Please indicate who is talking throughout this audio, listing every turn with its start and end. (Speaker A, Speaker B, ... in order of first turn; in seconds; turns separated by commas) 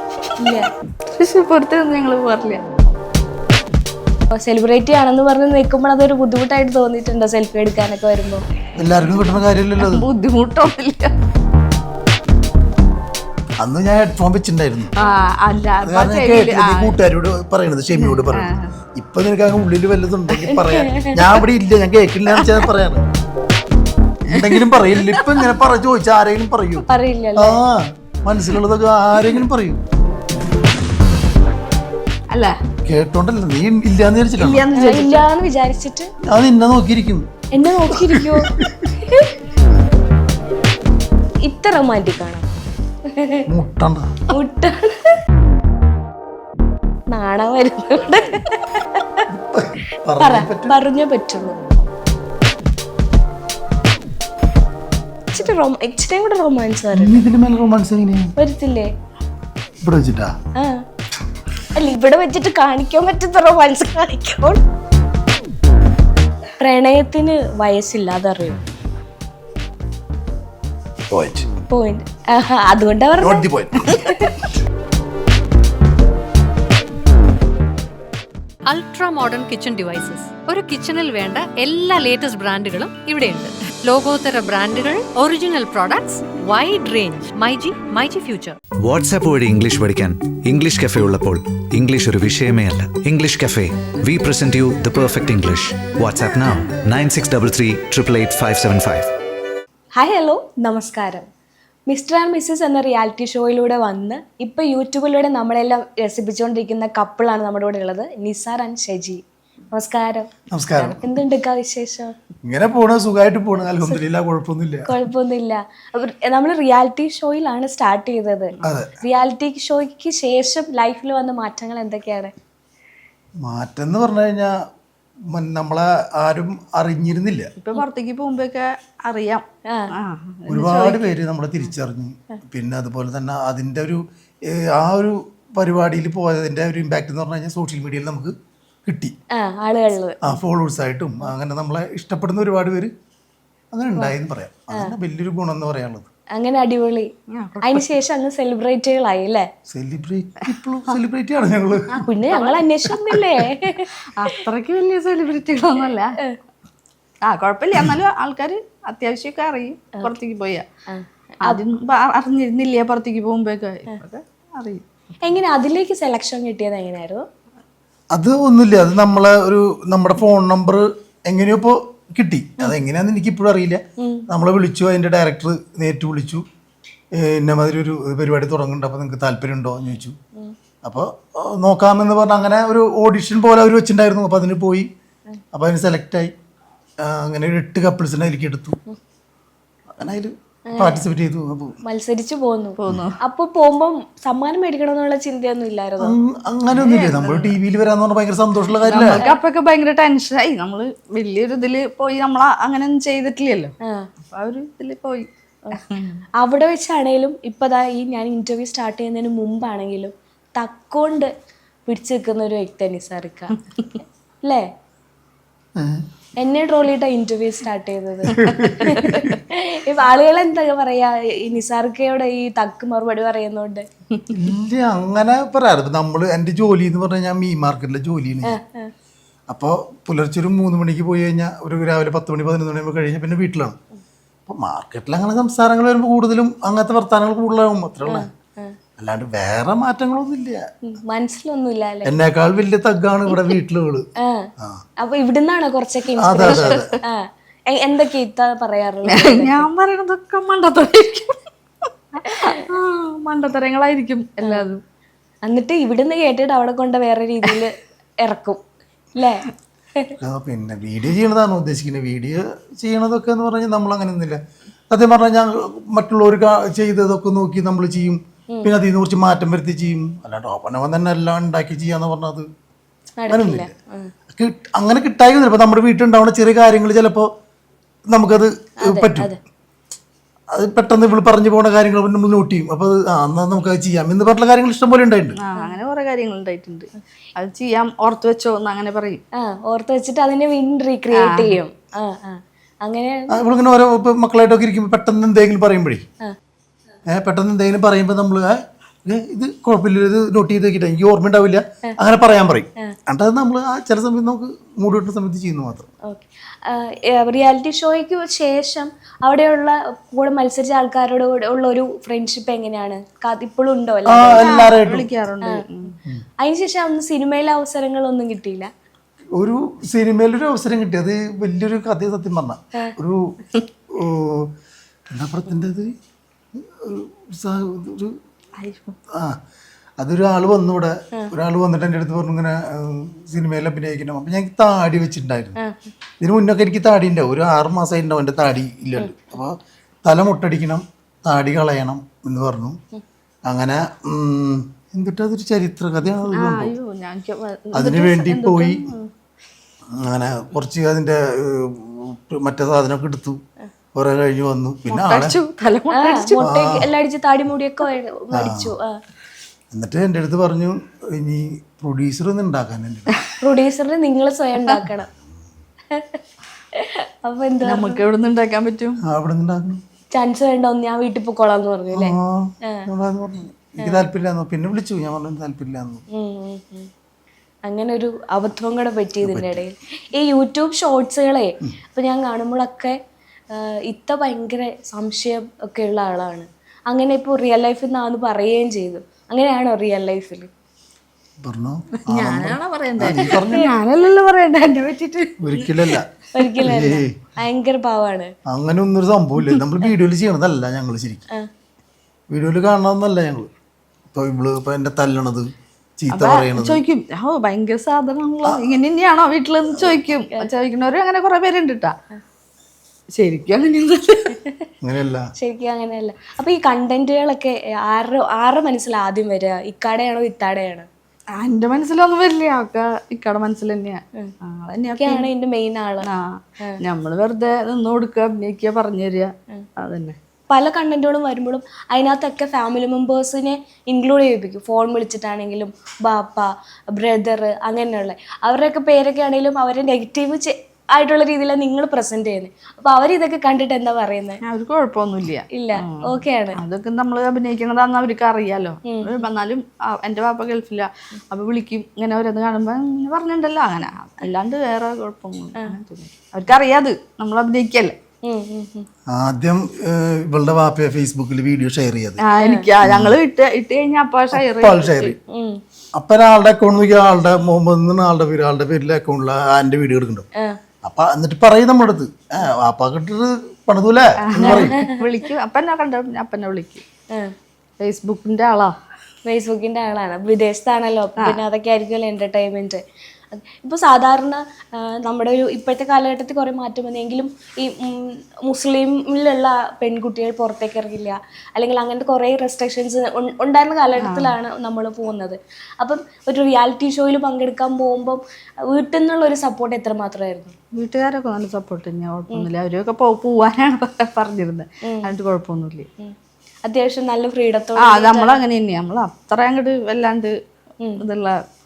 Speaker A: 0.4-0.7, Speaker B: 1.1-2.6, Speaker A: 4.3-8.4, Speaker C: 8.8-10.1, Speaker B: 8.8-11.1, Speaker C: 13.6-14.9, Speaker B: 15.0-17.0, Speaker C: 15.8-23.1, Speaker B: 18.1-18.7, Speaker A: 20.5-21.1, Speaker B: 22.4-22.7, Speaker C: 24.3-26.9, Speaker B: 24.3-25.3, Speaker A: 26.9-27.6, Speaker C: 27.4-29.8, Speaker C: 32.9-34.6, Speaker B: 34.4-35.2, Speaker A: 34.8-36.1, Speaker C: 36.2-37.3, Speaker A: 37.5-38.5, Speaker C: 37.8-38.9, Speaker A: 39.1-39.3, Speaker A: 41.4-42.5, Speaker A: 43.1-43.4, Speaker C: 43.5-44.2, Speaker A: 44.3-45.2, Speaker A: 47.1-49.2, Speaker C: 49.3-50.8, Speaker A: 50.2-51.6, Speaker A: 55.3-57.2, Speaker C: 57.0-58.3, Speaker A: 58.4-58.9, Speaker C: 59.8-60.4, Speaker A: 60.6-60.8, Speaker A: 61.8-64.6, Speaker A: 66.6-68.6, Speaker C: 71.1-71.5, Speaker A: 71.7-74.3, Speaker C: 73.2-74.1, Speaker D: 78.7-88.6, Speaker E: 88.8-99.1, Speaker A: 100.0-101.3, Speaker A: 101.9-109.2, Speaker A: 109.7-112.1, Speaker C: 110.5-111.0, Speaker C: 112.5-114.9, Speaker A: 114.9-122.3, Speaker C: 118.6-118.9, Speaker C: 123.4-124.5, Speaker C: 125.3-127.5, Speaker B: 127.6-131.1, Speaker C: 130.5-138.3, Speaker C: 138.9-139.2, Speaker A: 139.3-140.2, Speaker C: 140.2-142.9, Speaker C: 143.7-146.1, Speaker A: 146.3-147.1, Speaker B: 147.3-147.9, Speaker A: 147.6-149.5, Speaker C: 149.7-152.1, Speaker A: 151.9-154.4, Speaker B: 152.3-152.7, Speaker B: 154.1-156.2, Speaker B: 157.2-160.7, Speaker A: 160.9-161.6, Speaker B: 161.4-164.8, Speaker A: 165.2-167.2, Speaker C: 168.1-176.4, Speaker A: 174.0-174.3, Speaker C: 177.2-180.2, Speaker C: 180.8-184.9, Speaker C: 185.5-186.3, Speaker C: 187.0-188.8, Speaker C: 189.9-191.8, Speaker A: 190.7-191.0, Speaker A: 191.8-196.2, Speaker B: 192.8-193.2, Speaker C: 196.0-199.2, Speaker B: 196.7-197.6, Speaker B: 198.9-203.7, Speaker A: 198.9-199.4, Speaker B: 204.3-206.2, Speaker A: 206.4-211.3, Speaker A: 211.9-213.6, Speaker C: 215.8-216.1, Speaker A: 216.4-223.9, Speaker C: 218.3-219.3, Speaker C: 224.3-228.6, Speaker A: 228.5-228.9, Speaker C: 229.5-233.8, Speaker C: 234.5-238.3, Speaker A: 238.1-238.8, Speaker C: 239.0-240.6, Speaker A: 240.8-242.1, Speaker C: 242.1-244.1, Speaker A: 244.2-244.5, Speaker A: 245.0-249.7, Speaker C: 246.2-246.9, Speaker B: 246.5-247.0, Speaker B: 249.1-251.4, Speaker B: 252.2-254.8, Speaker A: 252.3-252.6, Speaker A: 255.5-258.6, Speaker A: 259.1-259.4, Speaker C: 260.2-272.5, Speaker A: 273.2-274.1, Speaker C: 273.3-273.7, Speaker C: 274.3-277.3, Speaker C: 278.1-279.3, Speaker A: 278.8-279.4, Speaker C: 280.5-285.4, Speaker B: 285.4-289.2, Speaker A: 289.4-293.4, Speaker B: 291.2-291.6, Speaker C: 293.3-296.0, Speaker C: 297.1-305.9, Speaker A: 306.1-314.8, Speaker C: 314.1-315.1, Speaker B: 314.3-315.9, Speaker A: 316.4-318.7, Speaker C: 319.4-323.3, Speaker C: 323.9-324.5, Speaker C: 325.1-325.9, Speaker C: 326.6-328.2, Speaker B: 328.6-329.0, Speaker C: 329.1-329.4, Speaker C: 330.0-335.6, Speaker A: 335.6-335.9, Speaker C: 336.2-342.8, Speaker C: 343.5-346.8, Speaker B: 346.3-349.1, Speaker C: 347.7-348.9, Speaker C: 349.9-353.4, Speaker C: 353.9-355.4, Speaker B: 354.9-356.4, Speaker A: 355.9-358.9, Speaker C: 356.4-356.9, Speaker C: 358.4-358.7, Speaker C: 359.7-363.1, Speaker A: 363.4-365.1, Speaker A: 365.9-366.2, Speaker A: 366.8-368.0, Speaker B: 367.6-369.0, Speaker C: 369.0-369.8, Speaker A: 370.1-372.9, Speaker C: 371.9-376.0, Speaker A: 376.1-376.9, Speaker A: 377.7-383.0, Speaker C: 379.2-379.6, Speaker A: 383.5-390.5, Speaker C: 391.4-393.7, Speaker B: 392.1-396.0, Speaker A: 393.1-393.5, Speaker C: 395.4-396.1, Speaker A: 396.3-398.3, Speaker C: 396.6-397.2, Speaker C: 398.5-401.2, Speaker C: 402.3-403.5, Speaker C: 404.1-406.8, Speaker B: 406.1-411.9, Speaker C: 408.5-408.7, Speaker B: 413.2-414.4, Speaker C: 414.8-415.3, Speaker A: 415.4-420.9, Speaker B: 421.4-425.3, Speaker A: 425.0-426.1, Speaker B: 426.0-430.2, Speaker A: 430.5-444.4, Speaker B: 444.4-457.9, Speaker A: 445.5-446.6, Speaker A: 448.9-449.2, Speaker A: 458.2-458.9, Speaker C: 459.1-462.2, Speaker B: 462.2-465.2, Speaker A: 462.4-462.7, Speaker C: 462.8-463.2, Speaker C: 464.3-465.1, Speaker A: 465.3-465.6, Speaker C: 465.9-470.2, Speaker C: 470.8-474.7, Speaker B: 474.2-476.8, Speaker A: 474.4-475.0, Speaker B: 477.8-478.8, Speaker A: 479.2-482.8, Speaker A: 483.3-500.6, Speaker B: 494.0-494.3, Speaker B: 500.7-505.9, Speaker A: 506.6-508.4, Speaker B: 507.8-510.3, Speaker B: 511.0-511.4